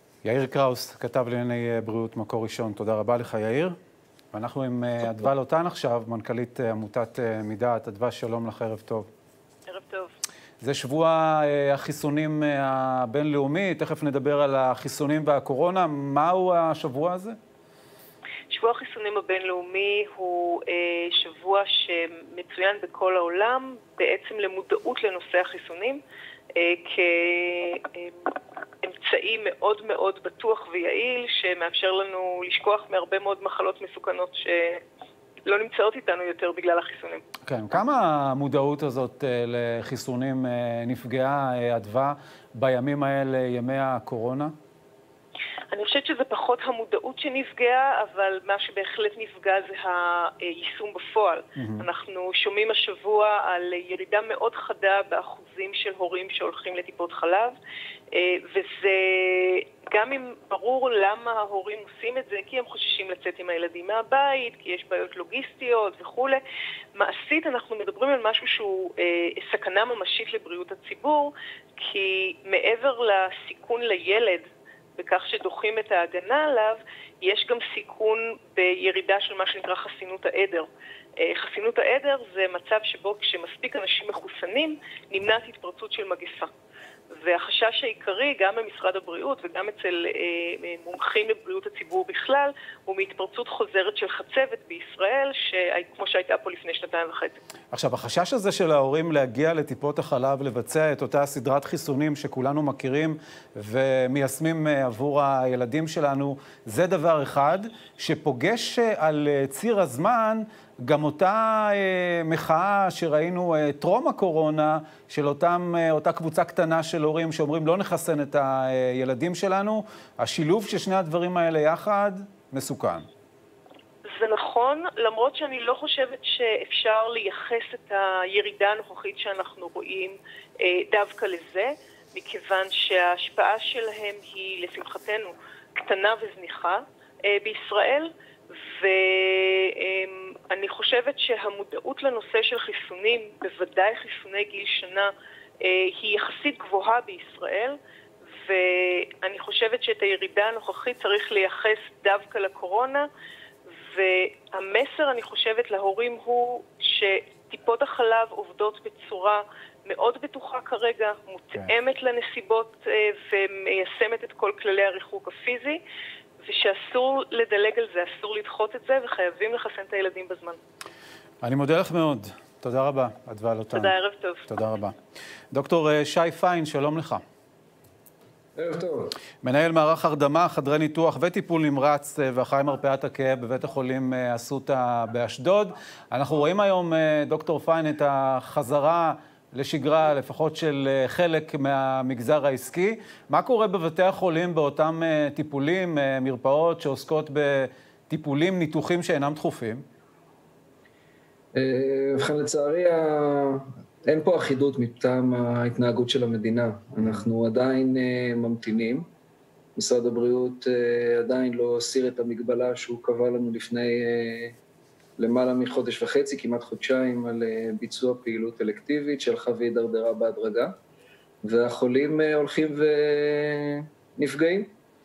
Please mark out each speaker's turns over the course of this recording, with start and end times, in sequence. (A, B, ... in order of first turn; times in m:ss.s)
0:00.2-0:03.8 A
0:04.3-0:09.1 A
0:09.7-0:10.1 B
0:10.6-0:17.4 A
0:18.5-0:26.0 B
0:26.6-0:28.3 B
0:28.8-0:34.8 B
0:35.5-0:37.2 B
0:37.5-0:44.5 A
0:45.7-0:57.6 B
0:51.6-0:51.8 A
0:58.1-1:06.4 B
1:07.0-1:14.4 B
1:15.0-1:26.5 B
1:27.2-1:37.4 B
1:37.7-2:03.1 A
2:04.1-2:18.1 B
2:18.7-2:25.1 B
2:25.6-2:27.8 B
2:28.4-2:33.1 B
2:33.9-2:45.8 B
2:46.4-2:50.6 B
2:51.4-2:53.9 A
2:53.7-2:54.5 B
2:54.5-2:54.9 A
2:55.5-2:57.2 A
2:58.6-2:59.1 C
2:59.4-3:19.8 A
3:21.6-3:29.1 C
3:29.8-3:34.6 C
3:35.2-3:40.7 C
3:41.4-3:44.7 C